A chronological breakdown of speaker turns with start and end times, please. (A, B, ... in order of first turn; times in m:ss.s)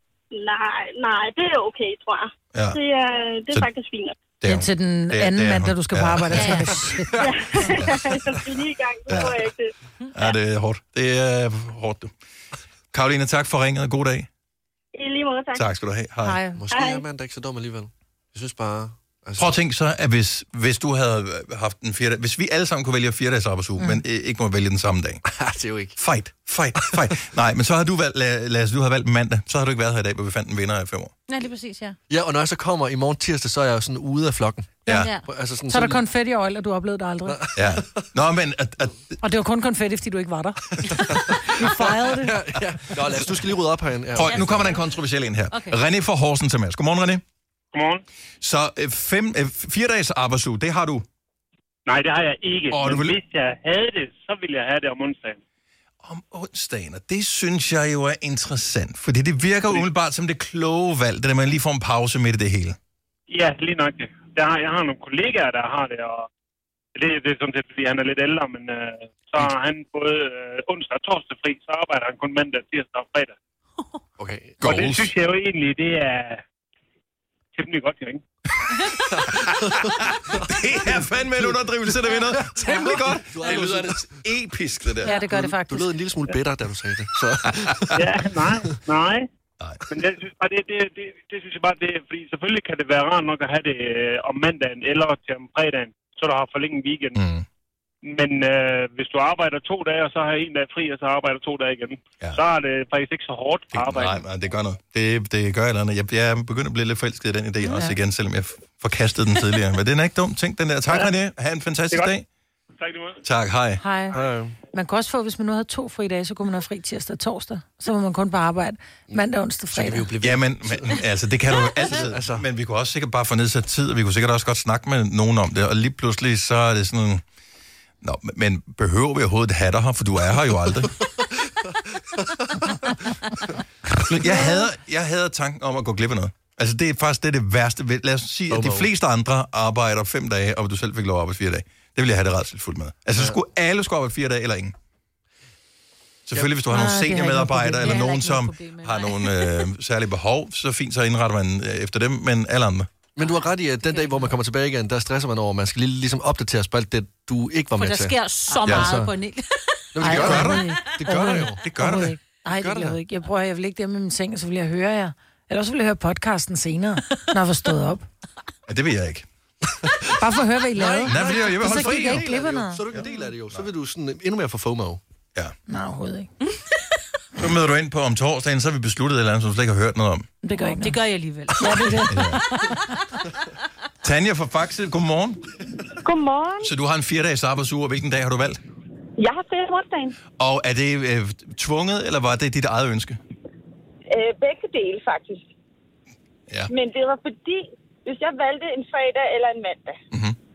0:00.3-0:04.2 A
0:02.5-0:02.8 B
0:04.4-0:07.2 B
0:04.4-0:07.7 C
0:06.3-0:06.7 D
0:07.2-0:09.7 A
0:07.7-0:08.0 B
0:09.1-0:09.4 B
0:10.1-0:12.1 B
0:12.9-0:14.3 B
0:14.9-0:15.7 A
0:15.5-0:16.4 B
0:16.2-0:16.6 C
0:16.6-0:19.5 E
0:16.7-0:17.0 A
0:19.4-0:25.2 B
0:25.3-0:26.0 E
0:26.0-0:31.1 B
0:31.3-0:32.0 D
0:32.1-0:36.0 E
0:34.8-0:35.1 B
0:34.8-0:35.2 D
0:35.7-0:37.4 C
0:37.3-0:38.0 E
0:37.5-0:39.2 B
0:39.2-0:42.4 C
0:40.8-0:44.7 E
0:44.1-0:47.2 B
0:44.2-0:44.9 D
0:45.5-0:45.8 D
0:47.7-0:48.0 F
0:48.4-0:51.0 B
0:51.8-0:55.4 F
0:52.7-0:53.2 B
0:56.0-1:02.8 B
1:03.3-1:06.3 F
1:06.9-1:13.3 F
1:14.2-1:14.9 E
1:14.6-1:15.1 B
1:14.6-1:16.4 F
1:17.5-1:18.2 F
1:19.1-1:21.5 E
1:19.3-1:25.1 B
1:22.4-1:24.1 E
1:25.0-1:25.9 C
1:25.1-1:27.9 E
1:27.6-1:28.0 B
1:27.9-1:29.3 F
1:29.9-1:37.2 F
1:37.1-1:37.4 B
1:38.0-1:44.2 F
1:43.7-1:52.2 B
1:52.8-1:53.2 F
1:53.2-1:53.8 B
1:53.8-1:54.2 C
1:54.1-1:54.6 E
1:54.7-2:00.1 C
1:59.7-2:01.0 E
2:00.2-2:07.2 B
2:01.9-2:02.4 E
2:08.0-2:10.9 B
2:11.5-2:12.8 E
2:14.0-2:24.7 B
2:18.5-2:18.9 E
2:26.2-2:32.9 B
2:26.7-2:28.2 C
2:27.8-2:29.7 D
2:33.1-2:38.1 E
2:33.2-2:34.3 D
2:37.8-2:40.4 D
2:38.6-2:39.0 B
2:38.7-2:39.1 E
2:39.9-2:41.8 E
2:40.0-2:40.6 B
2:40.0-2:48.0 C
2:41.6-2:42.2 B
2:42.5-2:43.0 E
2:48.7-2:49.3 B
2:49.8-2:50.1 E
2:50.2-2:52.8 C
2:50.7-2:55.0 E
2:51.0-2:52.3 B
2:52.9-2:53.7 B
2:55.7-2:56.3 C
2:57.4-3:00.3 B
3:00.4-3:01.0 C
3:00.5-3:02.9 D
3:01.6-3:02.4 C
3:02.1-3:02.4 B
3:04.0-3:05.4 B
3:06.0-3:06.7 G
3:06.6-3:08.6 B
3:09.2-3:10.2 G
3:10.4-3:13.2 B
3:14.1-3:15.4 G
3:16.7-3:20.0 G
3:20.1-3:20.4 B